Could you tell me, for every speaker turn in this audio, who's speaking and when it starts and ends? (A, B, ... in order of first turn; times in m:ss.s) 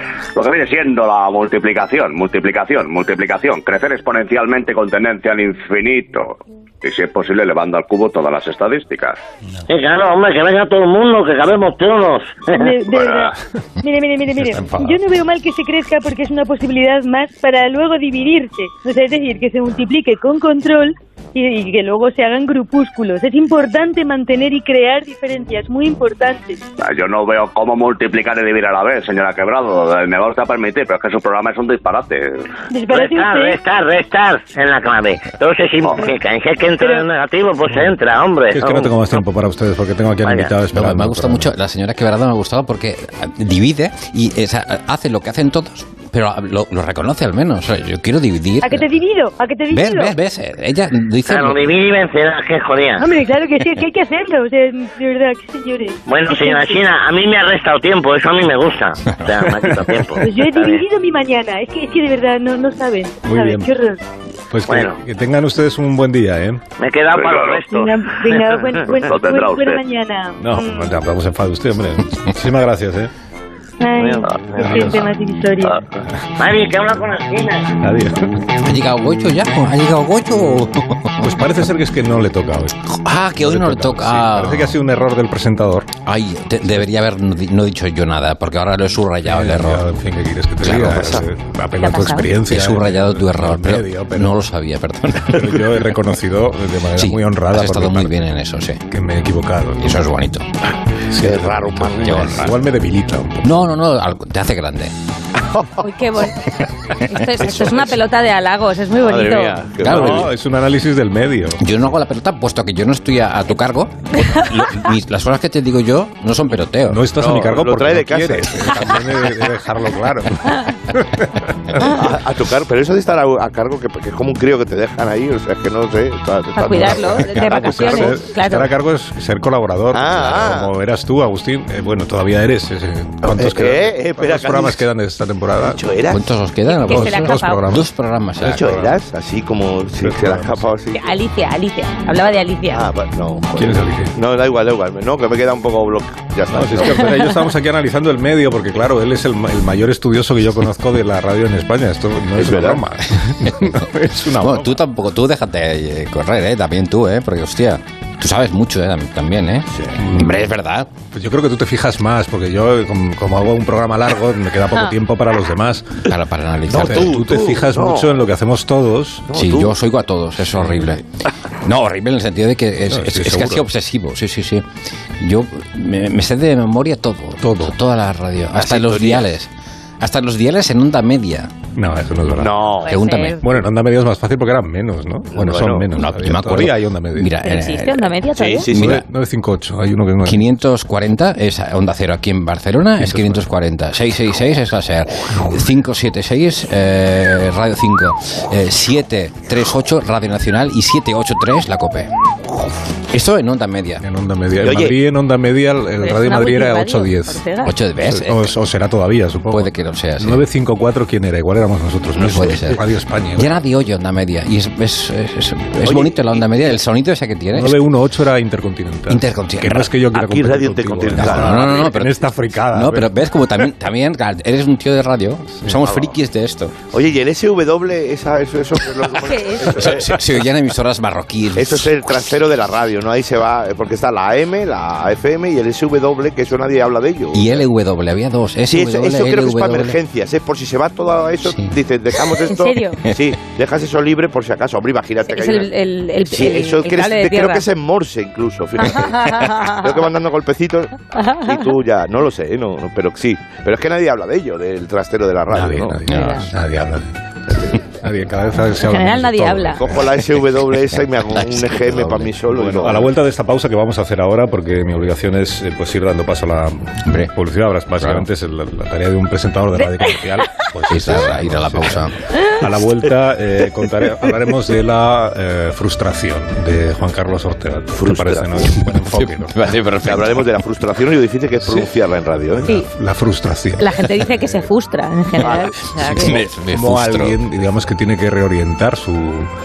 0:00.3-0:09.2 A
0:09.7-0:12.7 B
0:12.5-0:26.6 C
0:12.9-0:13.3 A
0:26.8-0:32.5 A
0:32.7-0:33.6 C
0:32.9-0:39.0 B
0:36.8-0:37.1 C
0:38.5-0:41.5 D
0:40.2-0:40.5 B
0:40.7-0:48.8 E
0:48.6-0:50.2 C
0:49.7-0:51.6 E
0:51.2-0:53.0 B
0:53.0-0:56.8 C
0:56.0-1:00.8 B
0:59.6-1:00.0 D
1:00.2-1:04.0 C
1:03.2-1:03.7 D
1:04.5-1:06.6 D
1:04.6-1:05.0 B
1:06.8-1:08.4 B
1:07.1-1:07.6 A
1:07.7-1:10.9 C
1:09.0-1:09.8 A
1:10.4-1:13.1 D
1:13.8-1:15.8 C
1:14.1-1:14.8 B
1:14.6-1:15.1 D
1:16.4-1:17.7 B
1:17.8-1:18.4 D
1:18.6-1:21.2 E
1:21.2-1:22.8 D
1:22.9-1:24.8 E
1:23.4-1:26.0 D
1:26.0-1:29.8 E
1:29.2-1:34.4 D
1:30.6-1:31.2 E
1:30.9-1:31.2 F
1:31.8-1:32.3 G
1:32.4-1:35.6 E
1:35.2-1:38.2 D
1:37.0-1:38.8 E
1:38.9-1:40.0 D
1:39.8-1:40.5 E
1:41.0-1:42.5 F
1:41.1-1:43.6 D
1:42.0-1:42.5 E
1:43.4-1:44.9 E
1:45.8-1:46.4 G
1:47.0-1:49.6 G
1:47.4-1:47.9 F
1:49.0-1:50.3 F
1:49.8-1:51.6 D
1:49.8-1:50.3 E
1:51.6-1:57.0 E
1:56.8-2:02.1 D
1:57.2-1:59.3 F
2:01.8-2:08.2 F
2:06.6-2:08.7 G
2:06.7-2:15.8 D
2:09.9-2:10.7 F
2:13.2-2:14.8 F
2:15.6-2:16.3 F
2:16.1-2:18.7 E
2:16.7-2:17.6 G
2:16.8-2:17.9 D
2:18.4-2:21.2 F
2:18.4-2:19.0 D
2:20.0-2:20.7 D
2:20.9-2:22.9 G
2:22.7-2:27.2 F
2:23.5-2:24.1 D
2:26.5-2:34.8 D
2:32.4-2:32.8 F
2:33.4-2:33.8 E
2:34.4-2:40.9 E
2:40.0-2:40.3 D
2:41.1-2:46.0 D
2:46.0-2:47.2 E
2:46.7-2:48.2 F
2:46.7-2:49.3 D
2:49.3-2:49.8 F
2:49.3-2:54.6 E
2:50.6-2:51.0 D
2:52.9-2:53.7 D
2:55.2-2:59.5 E
2:57.4-2:57.8 D
2:58.6-2:59.3 F
3:00.0-3:01.5 E
3:01.7-3:02.8 D
3:02.4-3:02.9 F
3:02.8-3:03.4 G
3:02.9-3:03.4 E
3:03.4-3:07.3 D
3:05.3-3:05.9 F
3:05.9-3:08.2 E
3:07.4-3:08.7 G
3:08.3-3:09.0 F
3:08.7-3:10.5 D
3:08.7-3:09.0 E
3:10.2-3:22.1 E
3:13.0-3:13.5 D
3:23.1-3:24.0 E
3:24.0-3:27.4 D
3:24.6-3:25.0 F
3:26.0-3:27.7 G
3:27.6-3:28.5 E
3:28.0-3:33.6 D
3:29.5-3:30.4 E
3:32.2-3:32.8 E
3:33.4-3:37.8 E
3:35.8-3:36.8 F
3:37.5-3:43.1 D
3:39.1-3:39.9 E
3:40.1-3:41.9 F
3:41.1-3:42.2 E
3:42.7-3:46.7 E
3:45.8-3:46.1 F
3:46.9-3:50.1 F
3:49.2-3:49.8 G
3:49.7-3:52.0 E
3:51.5-3:57.6 F
3:57.3-4:00.0 E
3:58.7-4:05.7 F
4:01.4-4:01.8 E
4:02.5-4:03.0 G
4:05.3-4:07.6 G
4:06.2-4:16.0 F
4:08.8-4:09.8 G
4:11.2-4:11.5 G
4:15.5-4:17.1 D
4:16.0-4:16.5 E
4:16.1-4:16.4 G
4:17.7-4:20.1 D
4:18.8-4:19.8 G
4:19.8-4:23.1 F
4:21.3-4:22.3 E
4:22.5-4:39.7 D
4:27.0-4:27.3 E
4:28.0-4:28.2 E
4:30.9-4:32.2 E
4:37.9-4:38.6 F
4:39.0-4:40.5 E
4:40.0-4:42.7 F
4:41.6-4:41.9 D
4:42.6-4:44.7 D
4:43.8-4:46.4 G
4:45.4-4:45.7 F
4:46.0-4:49.5 D
4:46.0-4:47.4 E